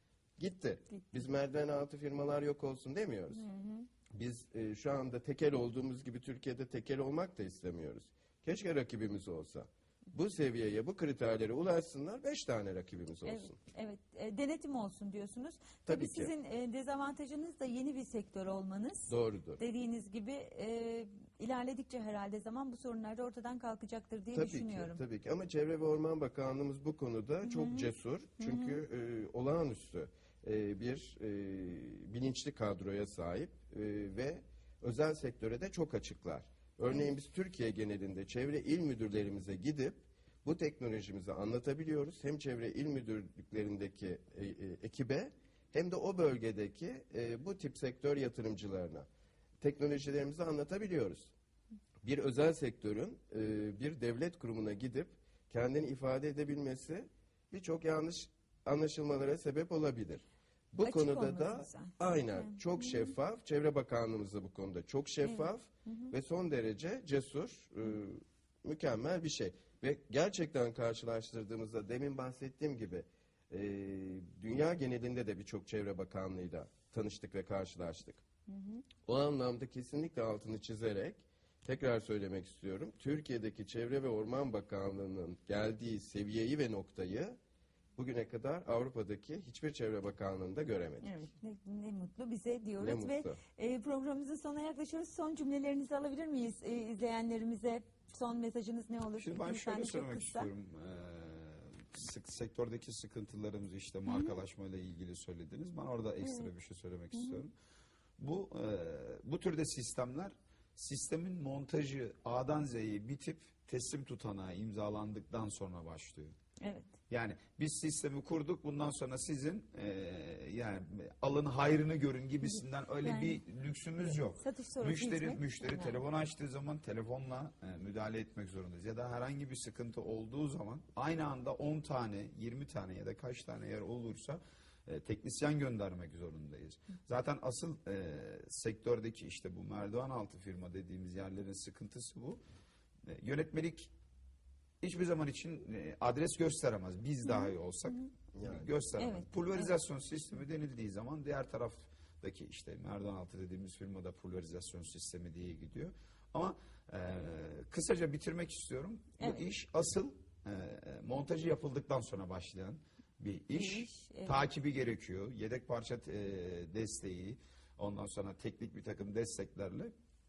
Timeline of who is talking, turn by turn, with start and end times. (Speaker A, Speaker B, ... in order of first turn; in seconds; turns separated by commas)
Speaker A: 0.4-3.4, Speaker B: 3.3-3.9, Speaker A: 4.1-13.6, Speaker B: 13.2-25.0, Speaker A: 15.9-16.3, Speaker A: 19.1-19.6, Speaker A: 24.3-49.1, Speaker B: 27.4-27.9, Speaker B: 28.4-28.8, Speaker A: 49.6-51.3, Speaker A: 52.0-78.2, Speaker B: 60.8-63.1, Speaker B: 65.2-66.1, Speaker B: 78.5-78.8, Speaker A: 79.0-87.4, Speaker A: 88.0-91.1, Speaker B: 91.0-100.5, Speaker A: 92.8-93.4, Speaker C: 99.2-107.5, Speaker B: 104.1-104.4, Speaker C: 108.2-116.3, Speaker B: 116.6-116.9, Speaker C: 117.1-142.4, Speaker B: 122.4-123.4, Speaker B: 124.4-126.0, Speaker C: 143.0-143.9, Speaker C: 144.8-169.9, Speaker B: 147.2-148.1, Speaker A: 148.3-148.7, Speaker B: 149.0-149.7, Speaker B: 159.2-159.4, Speaker B: 163.5-164.4